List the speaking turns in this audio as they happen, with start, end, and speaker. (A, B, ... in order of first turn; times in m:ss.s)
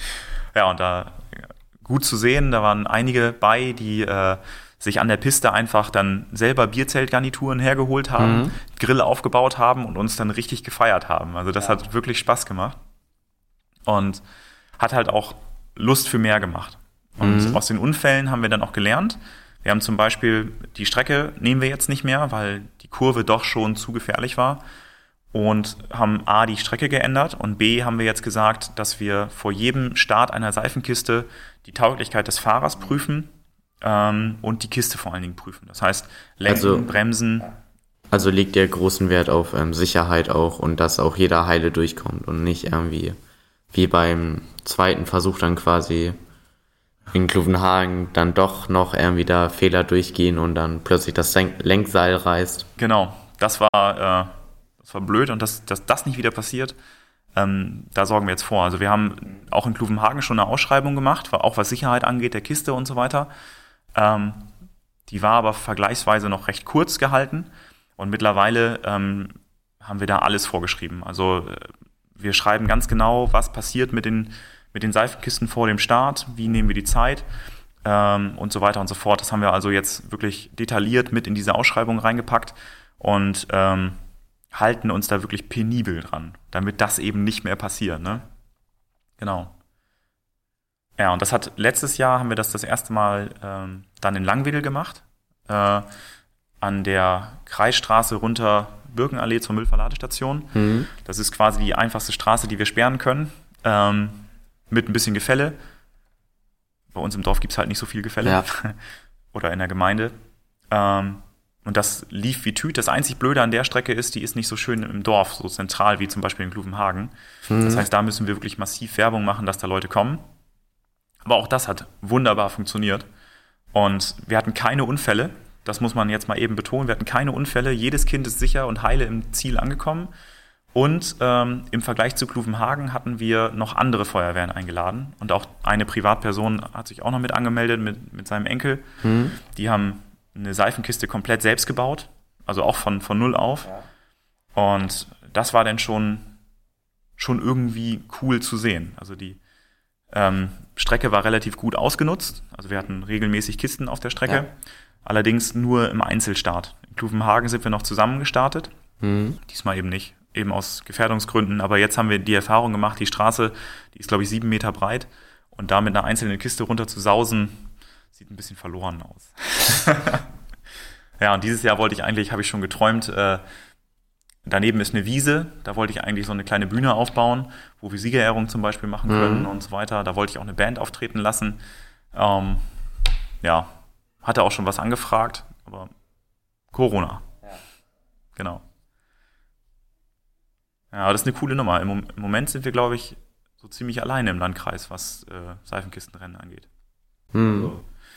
0:00.5-0:12.8 A
0:08.2-0:08.6 B
0:13.8-0:14.2 A
0:14.8-0:24.6 A
0:17.2-0:17.6 B
0:25.3-0:37.5 A
0:36.4-0:36.8 B
0:38.1-0:43.2 B
0:43.7-0:46.2 B
0:47.1-0:52.7 B
0:52.8-0:56.8 A
0:57.3-1:03.3 A
1:03.9-1:04.5 A
1:05.1-1:17.2 A
1:17.8-1:24.0 A
1:24.5-1:28.3 A
1:29.2-1:29.5 A
1:31.0-1:35.9 A
1:36.6-1:45.6 A
1:40.5-1:40.9 B
1:46.9-1:48.8 A
1:49.3-1:50.1 A
1:50.7-2:00.2 A
1:57.5-1:57.8 B
2:01.2-2:03.1 A
2:03.7-2:10.1 A
2:10.7-2:18.8 A
2:19.0-2:19.4 B
2:19.4-2:23.7 A
2:24.5-2:26.3 A
2:27.2-2:29.4 A
2:30.1-2:34.5 A
2:35.0-2:38.7 A
2:39.0-2:39.4 B
2:39.4-2:50.3 A
2:51.2-2:53.4 A
2:54.4-3:01.6 A
2:59.1-2:59.5 B
3:02.1-3:02.7 A
3:03.4-3:05.9 A
3:06.7-3:07.3 A
3:08.4-3:08.6 A
3:10.9-3:16.7 A
3:17.3-3:17.7 B
3:17.5-3:17.8 A